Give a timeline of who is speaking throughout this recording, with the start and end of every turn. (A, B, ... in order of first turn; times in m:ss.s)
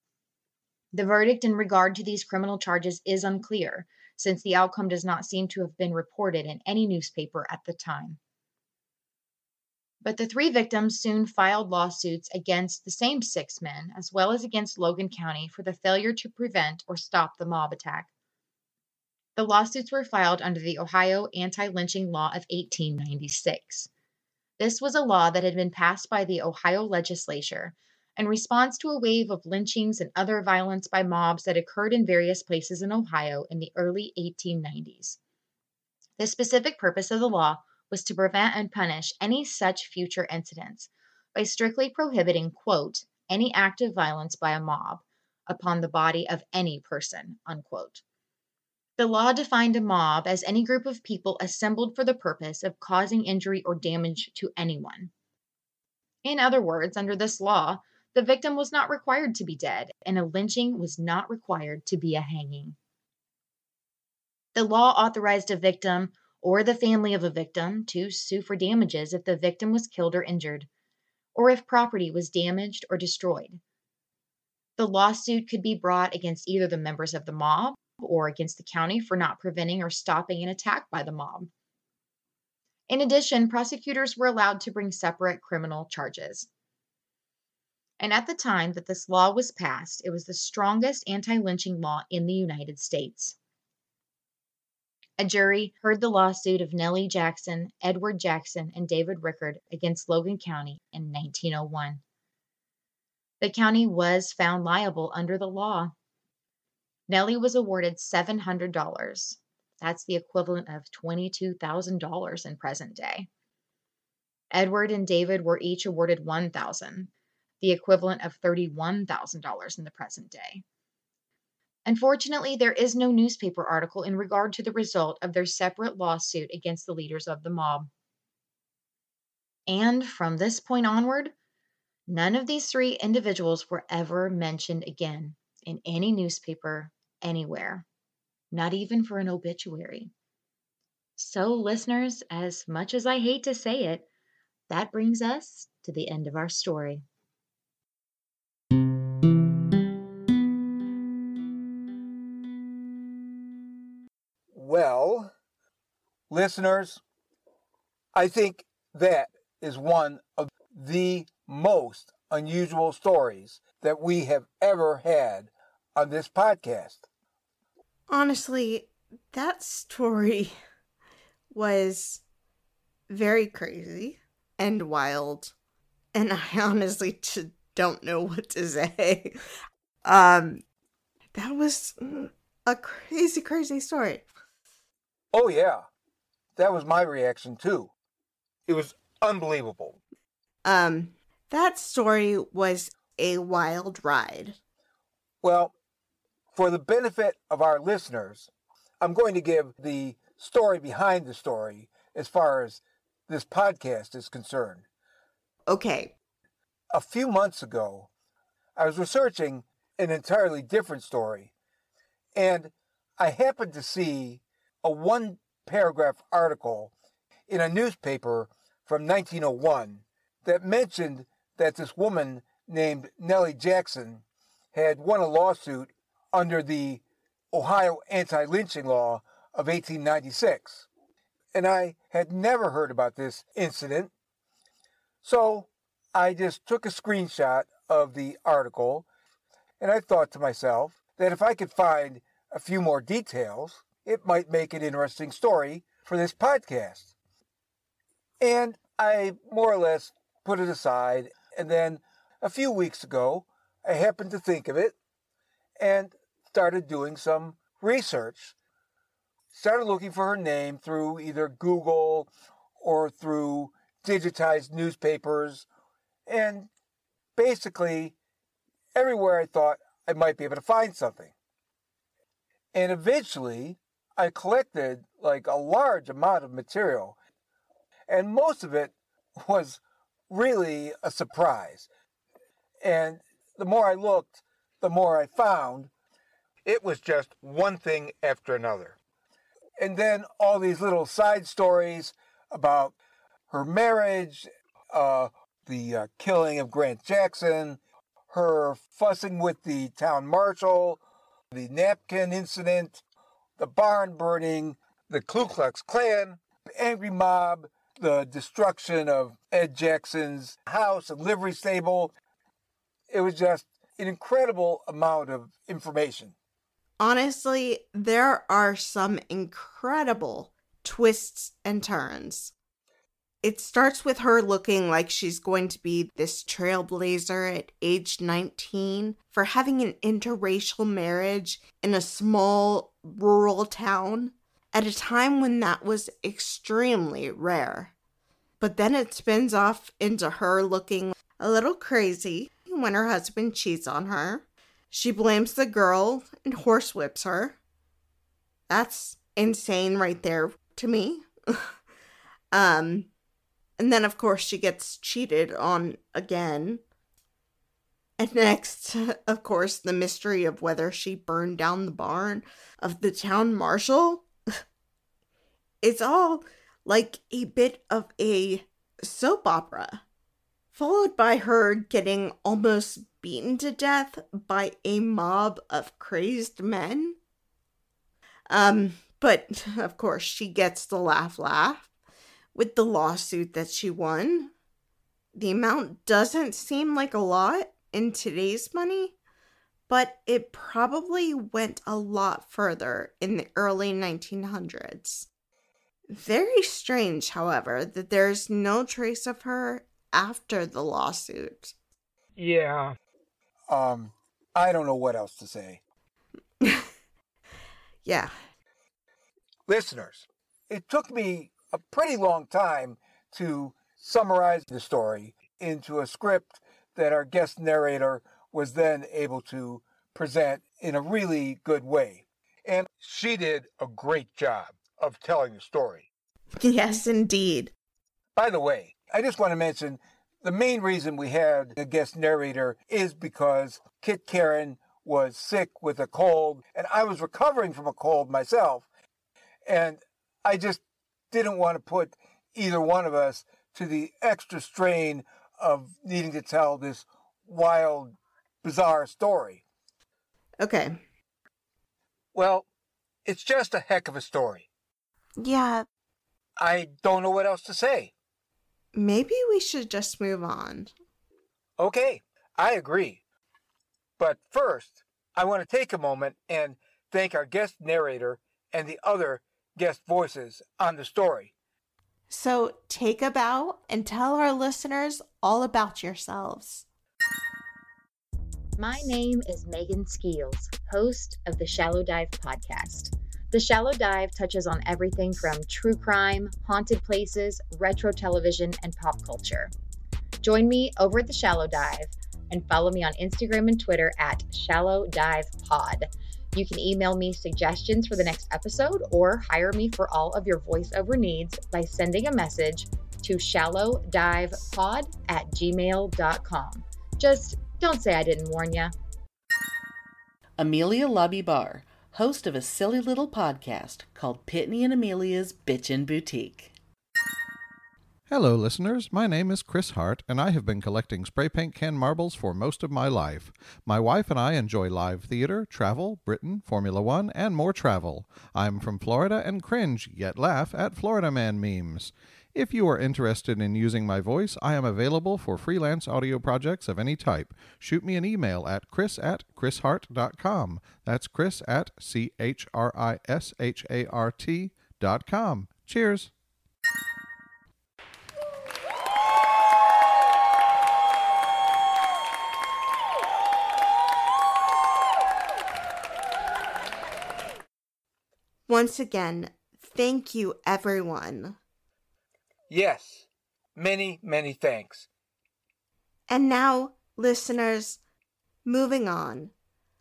0:00.9-0:08.2 A
0:10.0-0:18.1 A
0:19.4-0:23.9 A
0:24.6-0:35.2 A
0:36.2-0:48.0 A
0:49.0-0:55.1 A
0:56.2-1:02.8 A
1:04.6-1:10.7 A
1:11.4-1:13.6 A
1:14.8-1:21.5 A
1:22.9-1:26.5 A
1:28.0-1:33.4 A
1:35.2-1:42.0 A
1:43.4-1:45.9 A
1:47.1-1:53.3 A
1:54.5-1:57.1 A
1:57.6-2:00.6 A
2:01.9-2:07.9 A
2:09.7-2:11.3 A
2:12.1-2:17.8 A
2:18.5-2:20.1 A
2:21.2-2:24.1 A
2:24.7-2:27.0 A
2:34.5-2:35.3 B
2:36.3-2:37.0 B
2:38.2-2:47.1 B
2:48.1-2:50.6 C
2:51.5-2:52.2 C
2:53.1-2:55.5 C
2:56.1-2:59.3 C
3:00.0-3:00.6 C
3:01.3-3:04.3 C
3:05.3-3:05.9 B
3:06.6-3:07.9 B
3:08.7-3:10.0 B
3:10.6-3:14.6 C
3:15.4-3:15.7 B
3:16.5-3:24.8 B
3:25.7-3:26.2 C
3:26.9-3:28.1 B
3:28.8-3:31.5 B
3:32.4-3:36.9 B
3:37.5-3:50.9 B
3:51.5-3:54.1 B
3:55.2-3:59.1 B
3:59.8-4:07.2 B
4:08.4-4:15.0 B
4:15.8-4:18.6 B
4:19.5-4:22.3 B
4:22.8-4:25.7 B
4:26.3-4:26.7 B
4:27.4-4:28.2 B
4:29.0-4:31.3 B
4:32.7-4:37.2 B
4:38.1-4:41.9 B
4:42.8-4:45.9 B
4:46.6-4:49.0 B
4:49.8-4:53.0 B
4:53.5-4:57.8 B
4:58.3-5:01.0 B
5:01.5-5:03.0 B
5:03.6-5:12.1 B
5:13.1-5:16.4 B
5:17.0-5:22.5 C
5:23.4-5:37.9 C
5:38.6-5:47.6 C
5:48.7-5:51.7 C
5:52.5-5:53.1 C
5:53.8-5:56.8 C
5:58.2-6:04.3 C
6:05.8-6:10.0 C
6:10.7-6:17.2 C
6:18.5-6:21.9 C
6:22.6-6:24.5 C
6:25.4-6:29.2 C
6:29.9-6:35.3 C
6:36.1-6:41.8 C
6:42.4-6:43.0 B
6:43.7-6:45.8 B
6:46.6-6:46.9 C
6:48.0-6:48.3 C
6:49.7-7:06.1 B
7:06.6-7:07.7 C
7:08.4-7:18.9 B
7:19.7-7:29.6 B
7:30.6-7:31.0 C
7:32.3-7:32.7 B
7:33.2-7:34.7 B
7:35.4-7:35.9 C
7:36.6-7:38.1 B
7:39.0-7:40.9 C
7:41.8-7:43.2 B
7:44.2-7:51.5 B
7:52.3-7:56.9 C
7:58.8-8:09.7 A
8:10.4-8:28.9 A
8:30.6-8:36.7 D
8:38.3-9:06.3 E
9:18.7-9:21.6 C
9:22.7-9:25.1 B
9:26.3-9:28.0 C
9:28.7-9:29.5 C